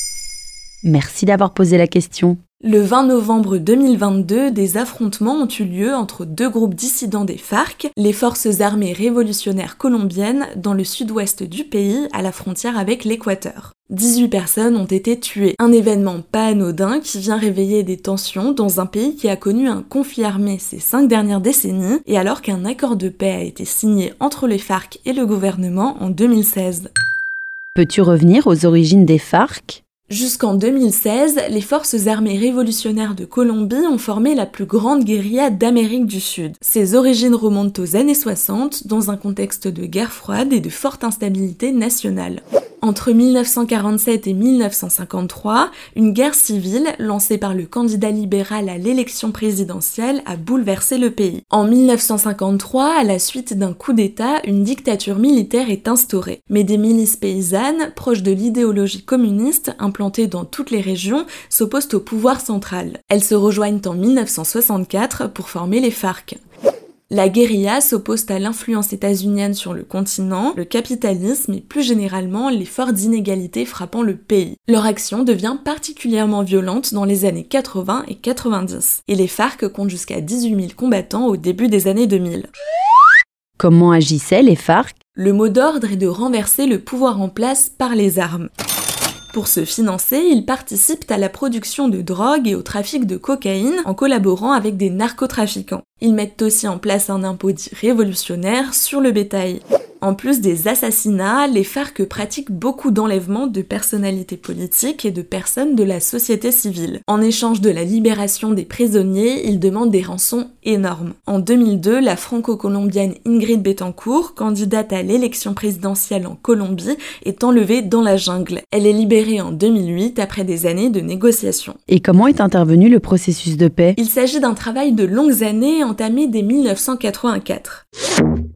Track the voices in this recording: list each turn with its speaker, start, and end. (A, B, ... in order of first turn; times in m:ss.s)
0:00.8-0:02.4 A
0:02.6-0:26.9 B
0:27.7-0:29.8 A
0:30.1-1:06.4 B
1:07.1-1:22.5 B
1:23.6-1:24.9 A
1:25.2-1:28.5 B
1:29.3-2:01.8 B
2:01.9-2:04.0 A
2:04.0-2:07.8 B